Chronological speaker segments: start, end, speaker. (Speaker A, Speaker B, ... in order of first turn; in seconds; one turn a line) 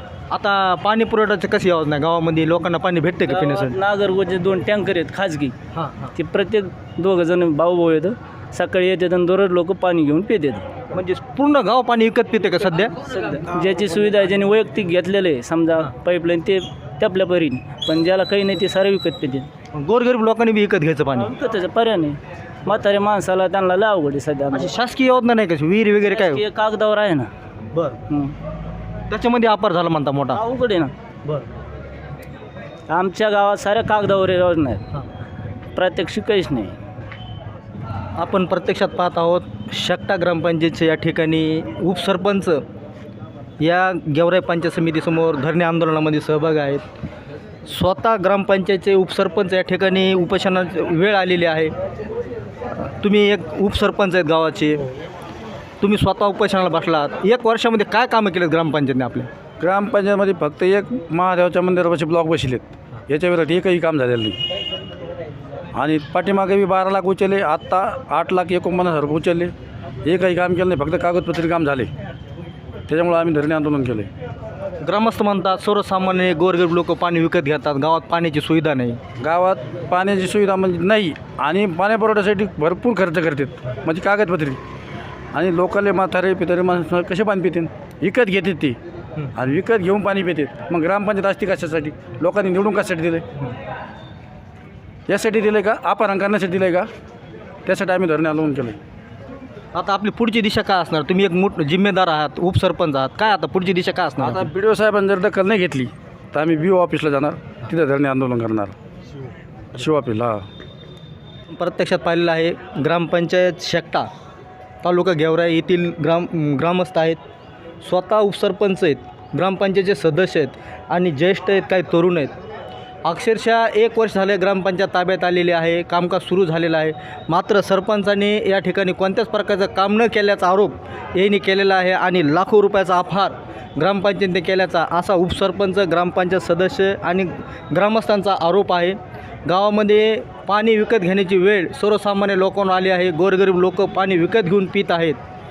Speaker A: 0.3-3.8
Speaker B: 3.3-5.5
Speaker A: 5.7-6.1
Speaker B: 6.2-10.7
Speaker A: 10.9-12.9
Speaker B: 13.0-19.5
Speaker A: 19.7-21.3
Speaker B: 21.1-24.7
Speaker A: 24.5-26.4
Speaker B: 26.1-27.3
Speaker B: 28.1-28.4
Speaker A: 29.1-30.4
Speaker B: 30.3-30.9
Speaker B: 32.9-34.9
Speaker B: 35.8-36.8
Speaker A: 38.2-42.6
Speaker A: 43.6-46.8
Speaker A: 47.7-51.7
Speaker A: 52.7-54.8
Speaker A: 55.8-59.3
Speaker C: 59.6-64.4
Speaker C: 65.8-69.5
Speaker C: 70.0-71.9
Speaker C: 72.9-74.1
Speaker A: 74.8-79.0
Speaker C: 79.2-84.6
Speaker C: 85.3-88.8
Speaker C: 89.3-93.2
Speaker C: 95.1-96.9
Speaker C: 97.7-98.8
Speaker A: 99.7-104.5
Speaker C: 104.2-108.7
Speaker C: 109.8-110.5
Speaker A: 111.5-114.1
Speaker A: 114.8-117.2
Speaker A: 117.8-122.3
Speaker A: 123.0-145.2